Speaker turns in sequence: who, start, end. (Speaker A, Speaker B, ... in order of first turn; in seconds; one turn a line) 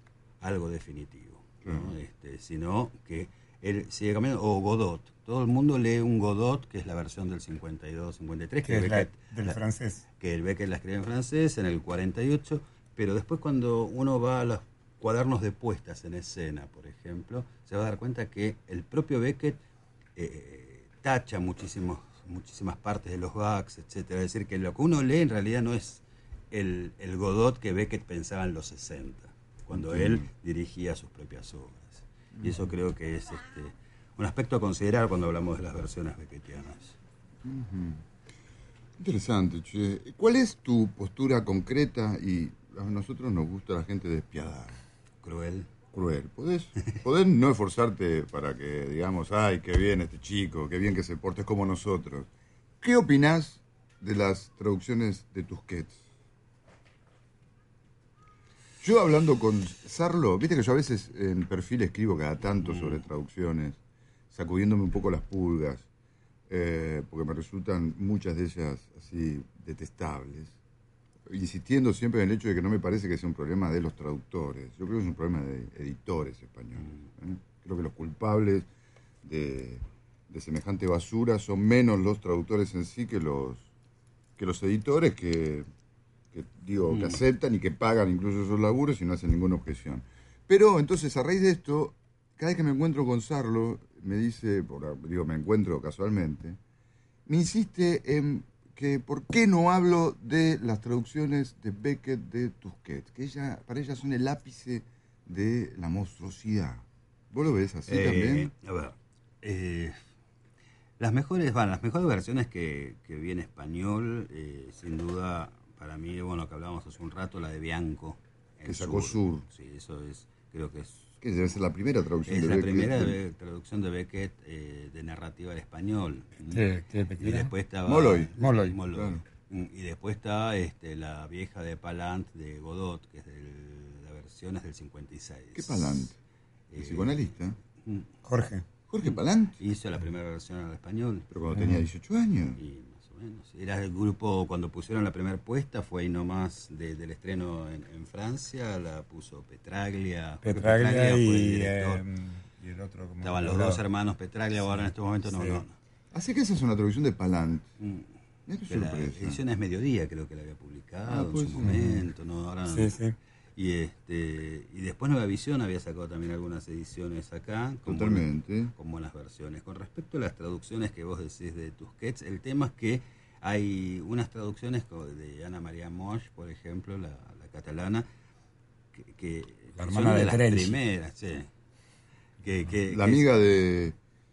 Speaker A: 0.4-9.6
Speaker B: 1.6-1.9
Speaker C: 8.6-10.0
Speaker A: 10.2-19.6
Speaker A: 20.1-37.0
Speaker B: 29.7-30.2
Speaker B: 32.4-32.7
Speaker B: 37.4-38.0
Speaker B: 39.0-44.8
Speaker A: 45.2-45.7
Speaker B: 45.9-52.3
Speaker B: 52.8-56.0
Speaker B: 58.8-63.8
Speaker A: 62.6-63.0
Speaker B: 64.3-65.9
Speaker B: 66.5-70.6
Speaker B: 71.2-78.7
Speaker A: 76.8-77.1
Speaker B: 79.2-83.7
Speaker B: 84.4-85.7
Speaker B: 86.3-96.6
Speaker A: 86.9-87.2
Speaker B: 97.3-108.5
Speaker A: 107.9-110.0
Speaker A: 111.0-121.2
Speaker B: 118.7-119.4
Speaker B: 121.2-123.2
Speaker A: 122.2-126.7
Speaker C: 126.5-127.5
Speaker A: 127.2-136.1
Speaker B: 127.8-128.3
Speaker C: 128.4-128.8
Speaker B: 128.8-129.2
Speaker B: 135.5-136.2
Speaker A: 136.7-138.1
Speaker B: 136.8-137.6
Speaker C: 138.2-138.6
Speaker B: 138.9-139.6
Speaker A: 139.6-141.3
Speaker B: 141.3-142.6
Speaker A: 142.5-152.0
Speaker C: 150.4-153.8
Speaker A: 153.2-155.7
Speaker C: 154.6-155.6
Speaker B: 156.1-157.7
Speaker A: 157.8-158.1
Speaker B: 158.5-159.4
Speaker A: 158.7-162.9
Speaker B: 161.1-162.0
Speaker C: 162.7-163.1
Speaker A: 163.6-178.1
Speaker B: 167.8-168.7
Speaker A: 178.9-181.5
Speaker C: 179.8-180.8
Speaker A: 182.4-183.3
Speaker B: 182.9-183.9